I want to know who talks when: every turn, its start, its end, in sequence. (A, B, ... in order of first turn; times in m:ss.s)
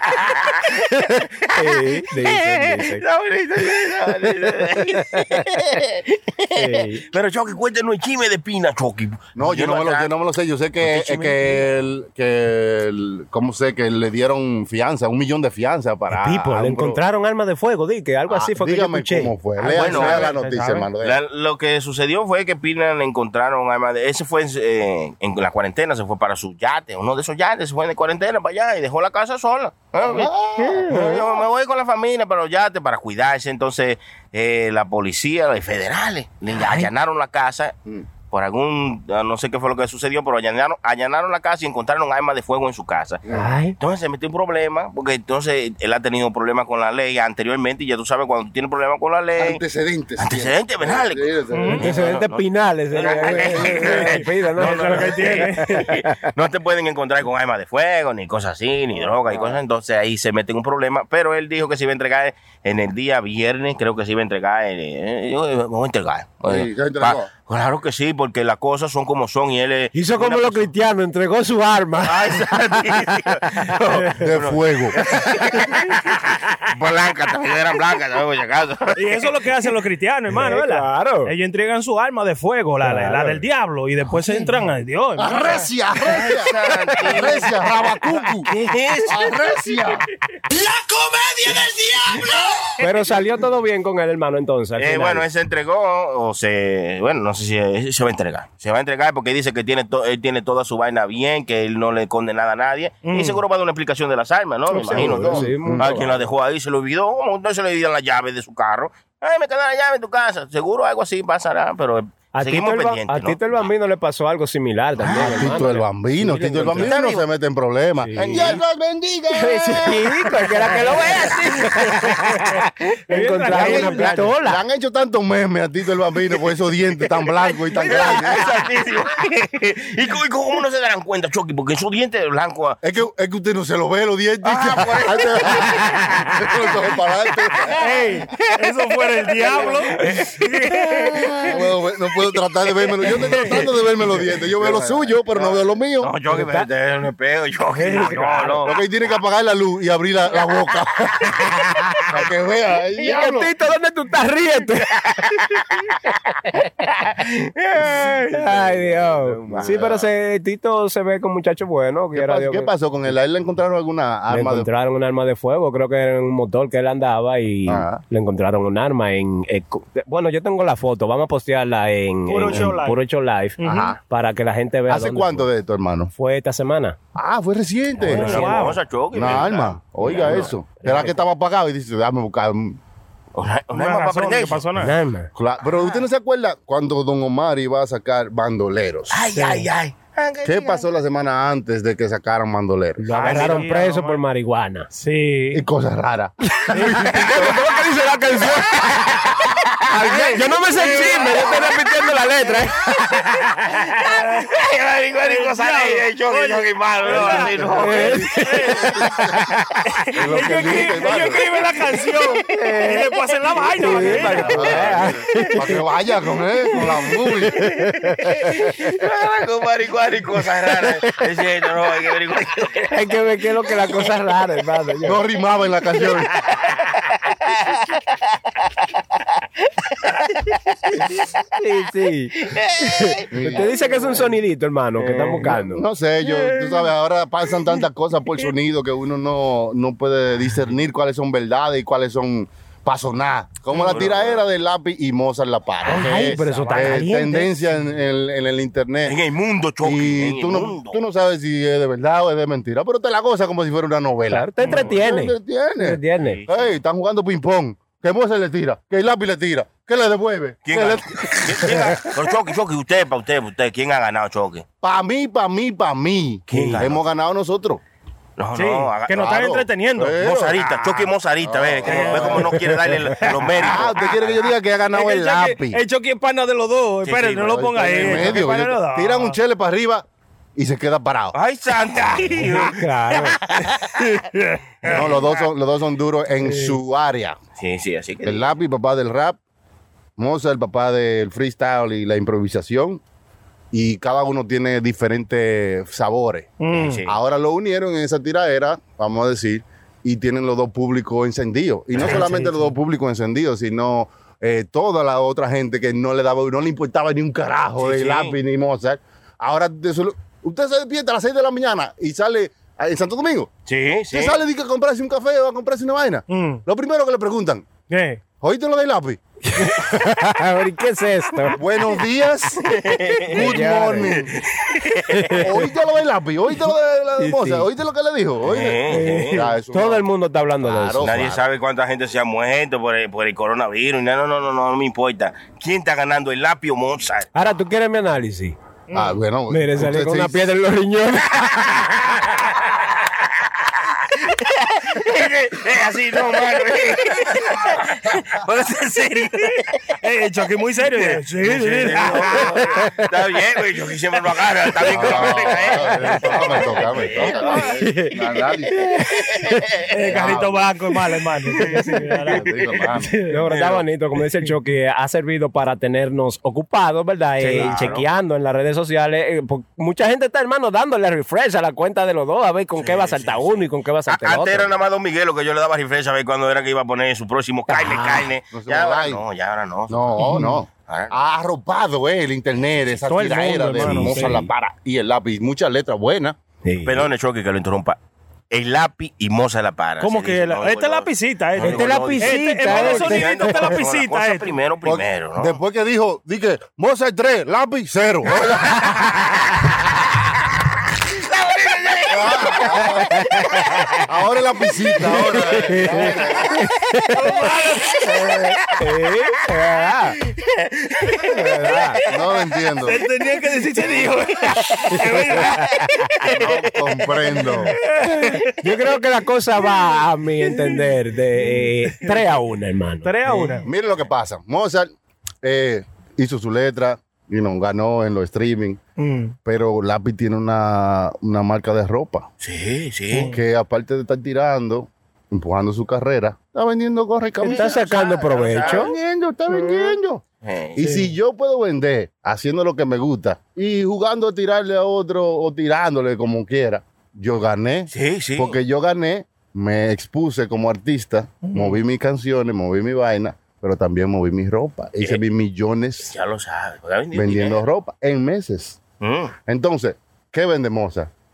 0:00.1-0:00.5 A
0:00.9-0:03.0 B
0:01.4-0:10.1 A
0:04.8-0:05.5 B
0:06.5-0:07.0 B
0:09.4-0:17.0 C
0:16.1-0:19.3 B
0:18.3-0:21.2 C
0:19.6-0:20.9 D
0:19.7-0:20.3 A
0:21.0-0:37.7 A
0:30.0-0:30.9 C
0:30.6-0:31.2 B
0:36.5-0:36.9 B
0:38.3-0:43.2 A
0:43.3-0:43.7 B
0:43.8-0:49.6 A
0:49.4-0:52.0 C
0:50.2-1:10.7 A
0:51.5-0:51.8 D
0:51.8-0:56.2 B
0:53.0-0:54.2 C
0:54.6-0:55.9 D
0:59.0-0:59.6 C
1:06.4-1:07.3 C
1:09.9-1:12.4 B
1:12.0-1:19.2 A
1:14.2-1:15.0 C
1:19.0-1:25.4 D
1:20.3-1:21.3 B
1:22.8-1:23.4 B
1:25.2-1:28.5 C
1:26.0-1:27.5 A
1:28.5-1:29.3 A
1:29.0-1:30.1 C
1:31.5-1:32.2 A
1:32.8-1:35.2 B
1:34.8-1:53.7 A
1:43.0-1:43.4 D
1:44.7-1:46.3 B
1:44.9-1:46.0 C
1:52.3-1:56.9 B
1:55.0-1:55.5 A
1:55.0-2:00.1 C
1:56.8-1:57.2 A
1:58.0-1:58.6 B
1:58.2-1:58.6 A
1:59.3-2:04.6 B
2:00.7-2:02.1 A
2:03.1-2:04.3 D
2:03.5-2:08.5 C
2:07.8-2:12.8 A
2:12.8-2:17.9 C
2:14.4-2:16.6 A
2:17.8-2:21.5 D
2:19.1-2:21.5 A
2:21.4-2:26.1 C
2:22.9-2:23.2 A
2:23.2-2:23.6 D
2:24.2-2:28.7 A
2:26.3-2:26.7 B
2:27.8-2:28.5 B
2:27.8-2:28.7 D
2:28.6-2:31.4 C
2:32.1-2:33.5 C
2:33.0-2:35.0 B
2:35.1-2:35.6 A
2:37.1-2:39.8 A
2:38.3-2:42.7 B
2:39.4-2:40.1 C
2:42.1-2:44.7 C
2:44.3-2:55.5 B
2:47.6-2:48.0 C
2:52.3-2:53.0 D
2:53.6-2:54.0 D
2:53.6-2:54.0 C
2:54.9-2:56.1 C
2:56.2-2:57.0 B
2:57.2-2:58.6 C
2:58.1-3:00.5 A
2:58.1-2:58.5 B
2:58.1-2:58.8 D
2:59.1-3:02.8 C
3:00.8-3:01.2 B
3:03.4-3:04.6 A
3:03.7-3:04.9 D
3:04.8-3:05.3 B
3:05.3-3:09.2 C
3:09.1-3:10.8 A
3:10.4-3:13.6 C
3:13.0-3:14.9 B
3:13.1-3:14.2 D
3:14.9-3:15.6 D
3:15.5-3:17.6 C
3:16.5-3:23.6 B
3:20.0-3:21.7 D
3:23.0-3:29.0 A
3:24.0-3:24.5 D
3:25.2-3:28.9 D
3:27.0-3:29.4 C
3:27.8-3:28.6 B
3:29.9-3:34.9 D
3:30.1-3:31.5 C
3:32.5-3:33.1 B
3:33.7-3:35.8 B
3:34.1-3:37.7 C
3:37.5-3:38.8 B
3:38.3-3:42.9 A
3:42.9-3:45.2 B
3:45.0-3:46.4 C
3:47.4-3:48.0 A
3:49.9-3:51.2 A
3:51.6-3:55.8 B
3:52.4-3:53.8 A
3:53.3-3:53.7 C
3:55.1-4:09.2 C
4:03.7-4:04.4 A
4:05.8-4:07.5 B
4:06.4-4:06.9 D
4:09.0-4:11.0 A
4:09.8-4:22.0 C
4:14.3-4:16.4 B
4:14.6-4:14.9 D
4:16.2-4:16.7 A
4:20.6-4:24.6 A
4:24.8-4:27.8 C
4:26.5-4:27.0 A
4:26.5-4:26.8 B
4:28.4-4:29.3 A
4:28.6-4:31.1 D
4:29.1-4:30.6 C
4:30.2-4:34.2 A
4:31.4-4:32.6 C
4:31.8-4:32.5 D
4:32.6-4:32.9 B
4:33.5-4:35.8 C
4:34.9-4:39.4 D
4:37.0-4:38.4 A
4:37.4-4:41.4 C
4:41.3-4:43.8 A
4:42.4-4:43.4 B
4:44.2-4:45.3 D
4:44.8-4:47.4 C
4:47.6-4:48.5 A
4:48.2-4:49.4 C
4:50.2-4:53.0 C
4:53.7-4:56.5 C
4:56.6-4:57.0 D
4:56.7-4:57.1 A
4:57.0-5:13.5 C
5:02.0-5:02.2 A
5:07.8-5:08.4 A
5:13.7-5:14.4 A
5:14.1-5:17.6 C
5:16.3-5:16.6 D
5:17.9-5:18.2 D
5:18.4-5:19.2 C
5:19.5-5:21.6 B
5:21.5-5:24.3 C
5:22.7-5:23.4 A
5:23.3-5:24.2 B
5:24.0-5:25.4 A
5:25.1-5:25.4 B
5:25.3-5:30.1 C
5:27.2-5:27.7 B
5:28.4-5:29.4 A
5:28.9-5:31.1 B
5:30.6-5:31.4 C
5:31.0-5:37.3 A
5:37.3-5:38.6 B
5:38.9-5:39.2 D
5:38.9-5:40.5 C
5:39.5-5:42.2 B
5:44.1-5:49.8 A
5:50.0-5:52.6 D
5:50.9-5:57.7 A
5:54.8-5:58.8 C
5:57.6-5:58.2 B
5:59.0-5:59.6 B
5:59.2-5:59.8 A
5:59.9-6:03.4 D
6:00.0-6:00.7 C
6:01.7-6:02.0 B
6:02.3-6:03.2 C
6:03.3-6:14.7 B
6:03.5-6:03.8 A
6:07.4-6:07.7 D
6:07.5-6:08.0 A
6:12.8-6:20.2 A
6:17.7-6:18.3 B
6:18.5-6:19.2 C
6:19.9-6:26.4 C
6:20.2-6:20.5 B
6:20.9-6:21.1 A
6:23.1-6:24.4 D
6:23.8-6:24.5 B
6:26.6-6:27.1 B
6:26.8-6:28.0 A
6:28.5-6:35.6 A
6:30.0-6:34.5 D
6:31.6-6:33.7 B
6:34.8-6:39.0 C
6:38.6-6:39.0 A
6:41.1-6:42.9 A
6:42.1-6:43.3 C
6:43.0-6:43.9 B
6:43.4-6:43.8 A
6:44.0-6:46.6 C
6:45.1-6:45.5 A
6:45.5-6:47.4 B
6:47.2-6:48.1 D
6:48.1-6:50.2 B
6:50.4-6:51.2 A
6:51.3-6:52.0 B
6:52.0-6:53.0 C
6:52.8-6:55.7 D
6:54.9-6:56.1 B
6:56.3-6:56.6 A
6:56.3-6:57.8 C
6:57.3-6:58.5 D
6:58.1-7:03.6 B
7:00.5-7:00.8 D
7:01.4-7:02.2 D
7:03.0-7:03.7 D
7:03.6-7:04.9 C
7:05.4-7:08.8 C
7:09.0-7:09.4 D
7:09.4-7:12.3 C
7:12.4-7:13.3 A
7:13.1-7:13.4 D
7:13.2-7:17.8 C
7:17.4-7:18.9 B
7:17.5-7:18.9 A
7:18.5-7:20.2 C
7:20.4-7:20.8 A
7:20.8-7:36.1 C
7:20.8-7:21.1 D
7:27.9-7:28.6 A
7:31.4-7:31.8 D
7:36.0-7:37.6 A
7:37.1-7:38.8 C
7:39.0-7:39.3 A
7:39.4-7:41.1 C